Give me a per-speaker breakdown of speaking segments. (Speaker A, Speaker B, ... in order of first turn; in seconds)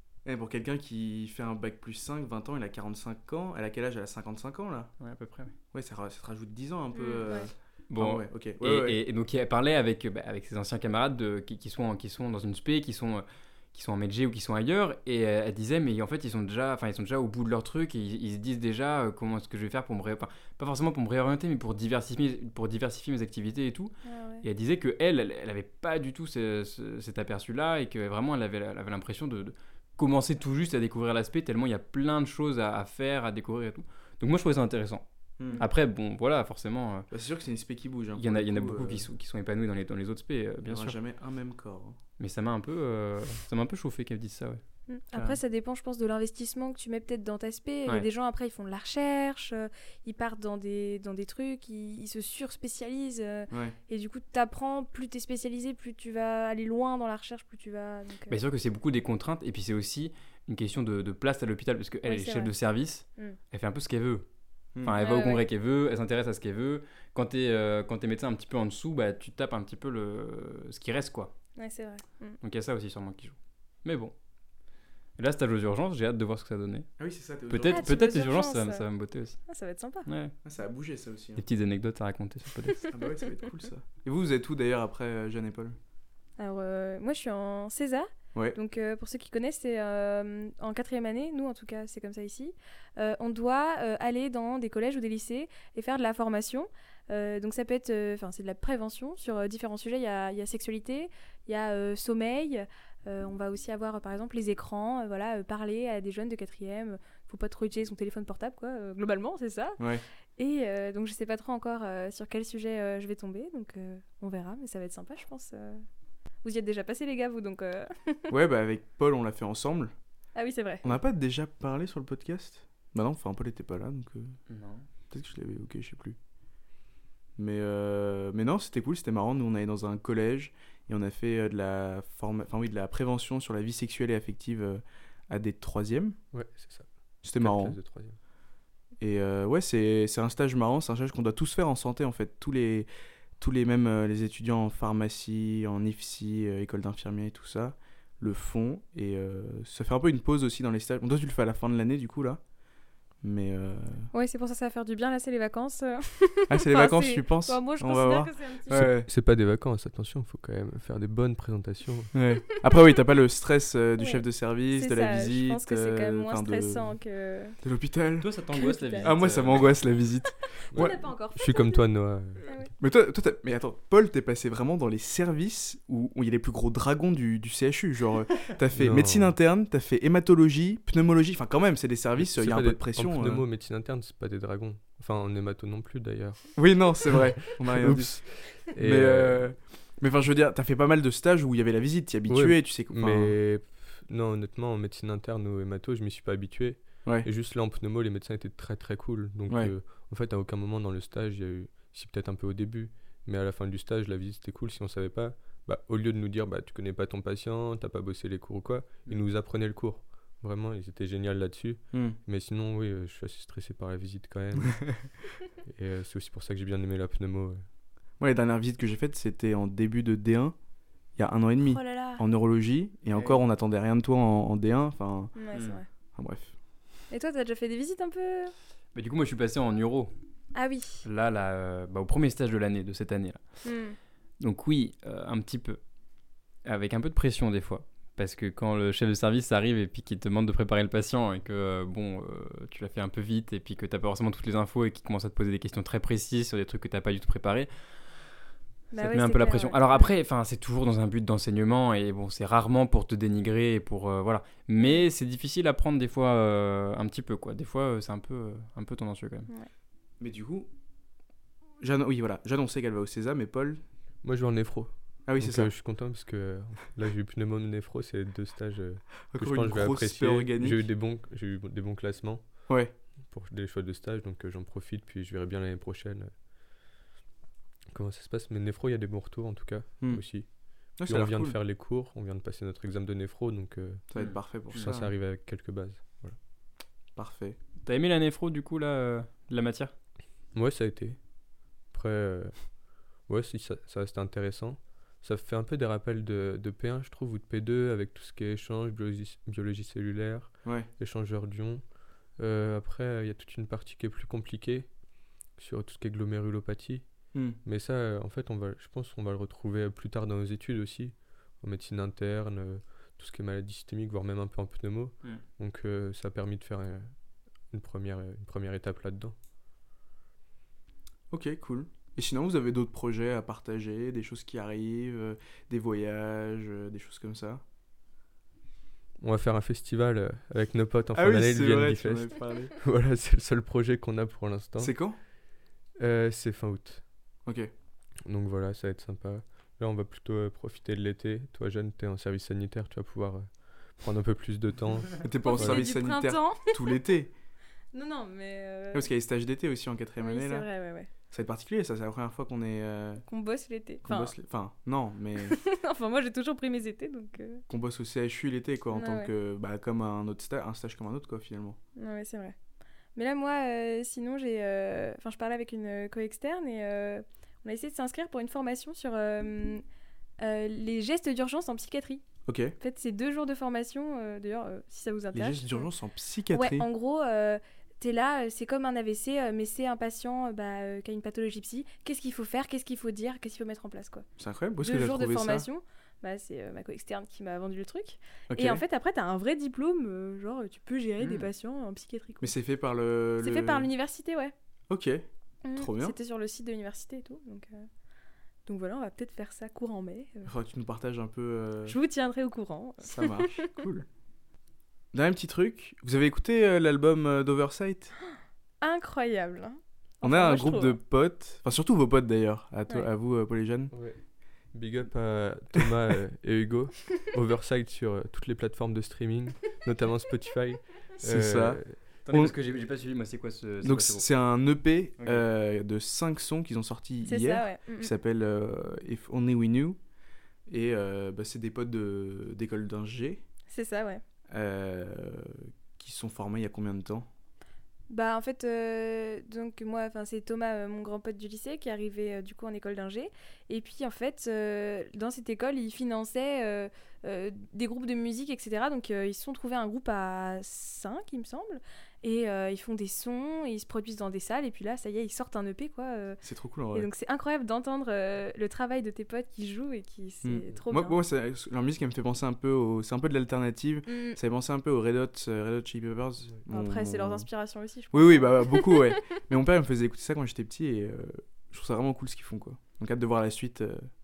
Speaker A: 0.2-4.9, 5.7-9.0, 35.4-35.6, 37.1-39.1, 40.7-42.0, 53.5-53.8, 77.0-77.9, 80.4-81.4, 82.9-85.8, 109.8-110.0, 118.3-119.9, 120.8-124.3, 125.1-126.2, 127.4-136.2, 137.2-137.8, 139.0-152.4, 153.2-154.1, 156.5-159.1, 162.1-166.9, 167.6-168.3, 169.0-171.0, 172.8-183.4, 186.6-193.4, 218.2-220.6, 221.2-225.3, 226.2-226.5, 260.2-260.7, 261.8-263.8, 265.3-265.7, 269.3-270.8, 281.0-281.6, 284.1-285.1, 287.2-287.6, 321.3-327.6, 331.1-332.8, 334.8-335.2, 345.2-347.3, 348.9-350.7, 351.3-353.2, 354.0-355.6, 357.7-361.8, 372.5-372.8, 375.3-376.9, 384.4-385.7, 388.5-388.8, 392.4-393.9, 394.9-395.2, 395.8-396.1, 400.5-402.0, 403.1-404.1, 405.1-408.1, 410.2-413.9, 421.2-422.5, 423.8-430.0, 430.7-433.4, 434.5-437.3, 456.4-457.1, 460.4-467.5, 468.1-474.1
Speaker B: 5.0-5.5, 7.9-37.1, 38.2-41.0, 42.2-44.6, 58.3-64.3, 64.8-71.3, 72.4-74.1, 75.2-76.9, 77.5-79.4, 80.1-80.3, 81.4-82.9, 124.5-124.9, 168.2-169.9, 223.1-223.4, 225.5-225.8, 228.9-230.1, 231.1-233.6, 234.4-235.8, 236.7-248.2, 249.0-259.5, 284.2-284.9, 287.9-289.9, 391.2-391.5, 422.2-424.3, 425.2-425.4
Speaker C: 6.9-7.5, 24.1-24.4, 44.9-58.4, 62.1-62.5, 65.0-65.4, 71.6-72.4, 77.6-78.9, 79.5-80.1, 86.4-109.8, 110.4-115.8, 116.4-118.3, 120.3-121.0, 154.1-158.8, 164.0-167.6, 168.5-169.7, 170.5-171.8, 172.4-172.7, 221.6-222.2, 225.3-225.9, 227.1-228.5, 230.5-231.1, 233.6-234.0, 248.9-250.1, 254.8-255.1, 345.4-346.8, 347.9-349.1, 350.2-351.1, 353.3-354.3, 355.4-357.6, 358.9-359.3, 362.0-362.6, 363.1-369.8, 370.4-372.2, 372.8-375.9, 376.5-384.2, 384.8-392.5, 393.4-394.5, 395.6-397.9, 398.7-400.5, 401.9-403.7, 408.8-411.0, 427.3-428.1, 433.7-434.2, 438.1-456.4, 456.9-461.2, 464.1-464.4, 466.7-469.1
Speaker D: 136.3-136.9, 137.4-138.2, 158.7-162.1, 170.7-172.5, 178.8-179.4, 182.2-186.6, 187.1-189.4, 192.3-215.0, 215.7-217.6, 264.2-272.7, 273.3-276.3, 277.9-280.5, 281.0-284.0, 284.8-286.4, 290.5-291.2, 291.9-292.7, 293.2-301.8, 302.4-304.9, 305.6-307.1, 307.6-317.1, 317.7-319.4, 329.2-334.9, 336.0-337.0, 338.3-345.9, 413.9-414.2, 414.7-421.9